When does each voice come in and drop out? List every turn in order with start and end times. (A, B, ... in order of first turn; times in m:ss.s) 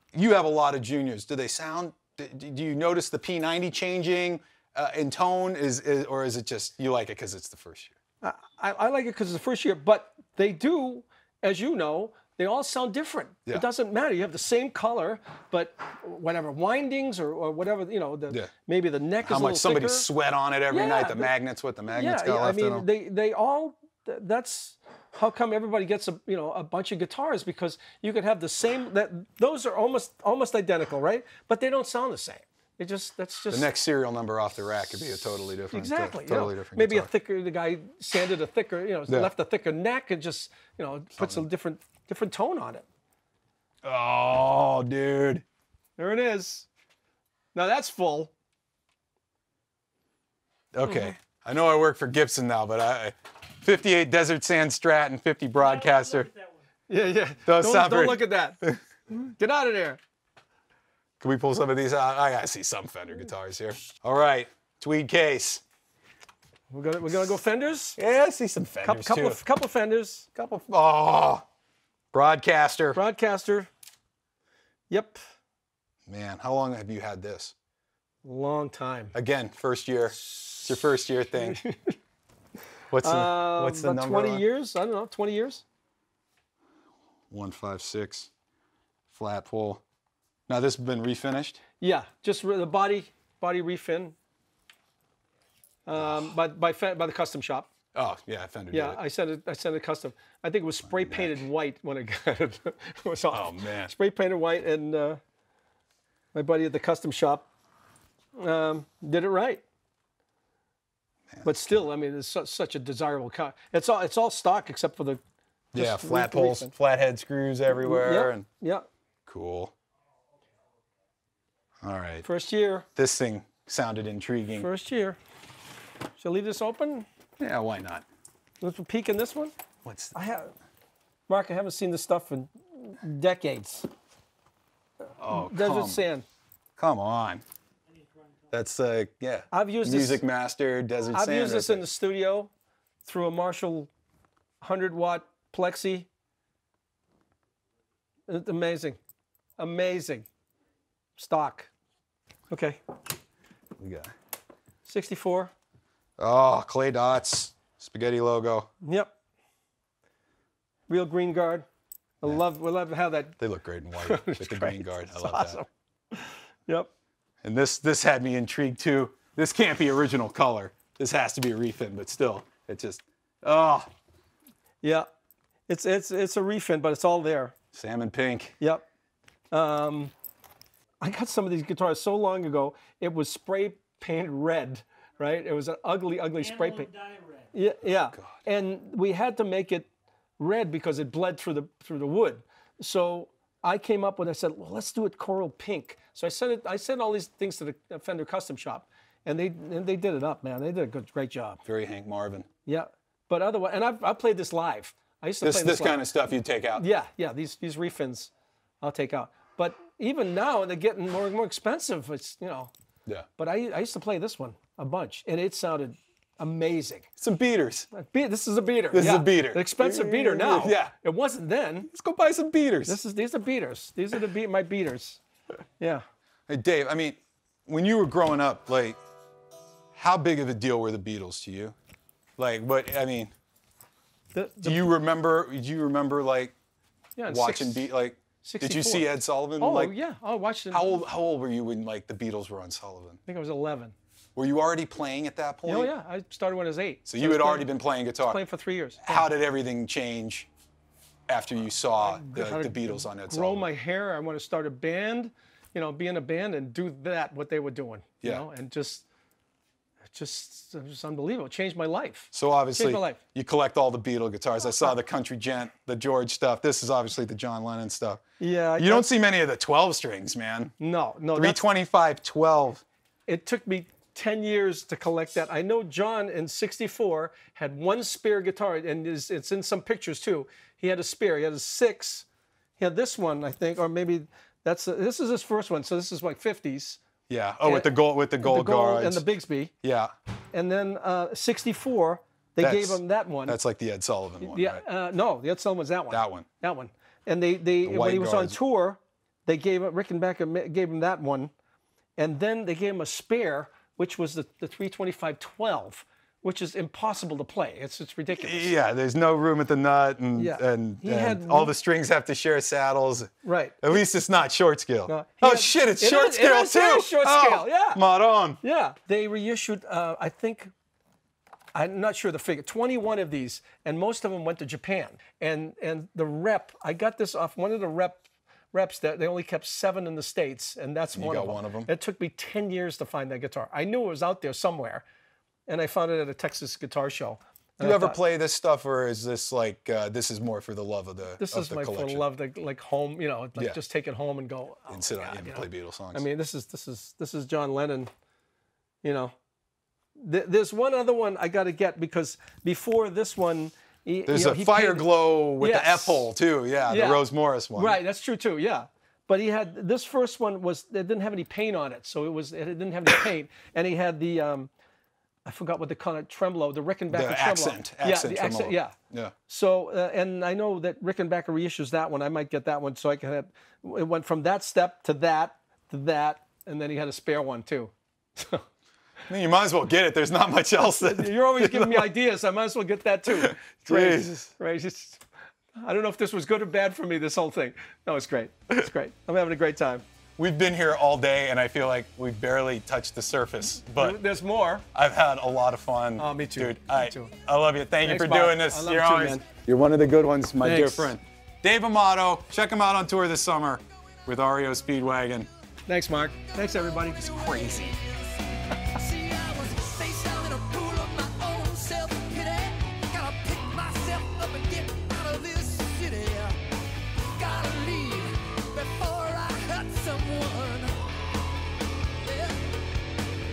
0:00.1-0:08.0 A
0:08.2-0:20.1 B
0:19.2-0:22.9 A
0:20.7-0:21.3 B
0:21.9-0:33.7 B
0:33.5-0:37.1 A
0:35.7-0:42.9 B
0:41.2-0:41.4 A
0:43.8-0:45.4 A
0:46.0-0:46.7 B
0:47.5-0:48.3 B
0:50.7-0:56.3 A
0:55.9-0:56.4 C
0:56.9-1:00.0 B
0:57.5-0:58.8 A
1:01.2-1:05.6 A
1:06.7-1:08.0 B
1:08.0-1:09.4 A
1:08.8-1:10.3 B
1:10.4-1:11.4 A
1:12.1-1:13.0 A
1:13.0-1:13.7 B
1:14.9-1:15.2 B
1:16.1-1:17.5 A
1:18.2-1:19.2 B
1:19.1-1:21.6 A
1:21.4-1:22.0 B
1:22.9-1:24.4 A
1:23.0-1:25.6 B
1:27.3-1:28.3 A
1:29.1-1:29.8 A
1:30.5-1:31.6 A
1:31.8-1:34.2 B
1:35.9-1:37.7 B
1:36.0-1:36.2 A
1:37.9-1:39.0 A
1:38.7-1:45.2 B
1:40.8-1:41.5 A
1:43.3-1:43.9 A
1:46.3-1:47.5 B
1:48.4-1:49.6 B
1:51.3-1:51.8 A
1:51.4-1:55.2 B
1:55.7-1:58.5 A
1:55.8-1:56.7 B
1:57.7-1:58.9 B
1:59.3-1:59.7 A
2:01.8-2:02.2 A
2:02.2-2:02.9 B
2:03.0-2:04.7 A
2:04.6-2:05.2 B
2:06.2-2:07.1 B
2:07.4-2:08.0 A
2:08.6-2:09.5 B
2:09.8-2:10.2 A
2:10.2-2:10.5 B
2:11.3-2:13.9 B
2:15.1-2:16.2 B
2:15.2-2:16.0 A
2:16.8-2:17.4 A
2:18.5-2:21.8 A
2:19.5-2:20.2 B
2:21.1-2:22.5 B
2:23.0-2:23.9 B
2:24.6-2:26.1 B
2:28.3-2:29.0 B
2:29.6-2:30.3 B
2:31.2-2:31.7 B
2:32.5-2:32.8 B
2:33.8-2:34.1 A
2:34.8-2:35.5 B
2:36.2-2:38.7 A
2:38.8-2:39.1 B
2:40.9-2:41.7 B
2:42.2-2:43.4 B
2:43.4-2:45.6 A
2:44.0-2:46.9 B
2:47.4-2:53.9 A
2:55.7-2:57.5 B
2:57.7-2:58.6 A
2:58.6-2:58.9 B
2:59.5-3:00.1 B
3:01.0-3:06.9 B
3:06.9-3:07.4 C
3:07.5-3:09.9 B
3:10.4-3:21.6 B
3:21.6-3:22.5 A
3:22.7-3:26.0 B
3:25.4-3:26.8 A
3:26.8-3:32.7 B
3:33.4-3:37.1 B
3:37.2-3:37.9 A
3:37.9-3:41.9 B
3:38.9-3:40.9 A
3:41.9-3:43.0 A
3:42.9-3:45.2 B
3:45.8-3:46.0 B
3:46.5-3:49.0 A
3:49.9-3:51.8 A
3:52.4-3:53.3 A
3:54.3-3:54.9 B
3:54.6-3:56.5 A
3:57.2-3:57.9 B
3:57.3-3:59.9 A
3:58.4-4:01.0 B
4:00.7-4:03.2 A
4:03.3-4:03.9 B
4:04.4-4:05.9 A
4:05.7-4:09.3 B
4:07.1-4:08.4 A
4:09.0-4:10.5 A
4:11.3-4:13.7 A
4:12.0-4:19.0 B
4:20.1-4:23.2 B
4:22.3-4:28.2 A
4:28.4-4:29.1 B
4:28.8-4:30.7 A
4:30.8-4:31.6 B
4:31.4-4:32.8 A
4:33.3-4:42.3 B
4:42.8-4:47.0 B
4:47.3-4:49.3 A
4:47.6-4:49.7 B
4:49.8-4:50.1 A
4:50.5-4:53.6 B
4:52.6-4:54.8 A
4:54.4-5:01.5 B
4:56.1-4:56.5 A
4:57.8-4:58.6 A
5:02.2-5:08.7 B
5:08.4-5:18.6 A
5:10.4-5:11.7 B
5:13.4-5:14.0 B
5:15.1-5:18.0 B
5:18.6-5:20.7 B
5:21.8-5:35.0 B
5:31.1-5:31.9 A
5:35.7-5:38.2 B
5:37.8-5:42.2 A
5:41.4-5:48.1 B
5:44.9-5:46.2 A
5:49.0-5:49.4 B
5:50.2-5:55.1 B
5:54.3-5:58.0 A
5:55.6-5:56.3 B
5:56.8-6:04.7 B
6:05.5-6:09.0 B
6:07.1-6:09.3 A
6:09.5-6:18.6 B
6:19.3-6:22.1 A
6:21.0-6:25.2 B
6:23.3-6:24.5 A
6:25.8-6:30.0 B
6:30.4-6:34.2 A
6:34.0-6:34.8 B
6:34.9-6:45.5 A
6:36.2-6:37.3 B
6:38.0-6:39.4 B
6:40.6-6:41.2 B
6:45.9-6:47.3 B
6:47.0-6:48.4 C
6:47.2-6:48.0 A
6:48.9-6:56.6 C
6:57.4-7:01.0 C
7:02.2-7:02.8 C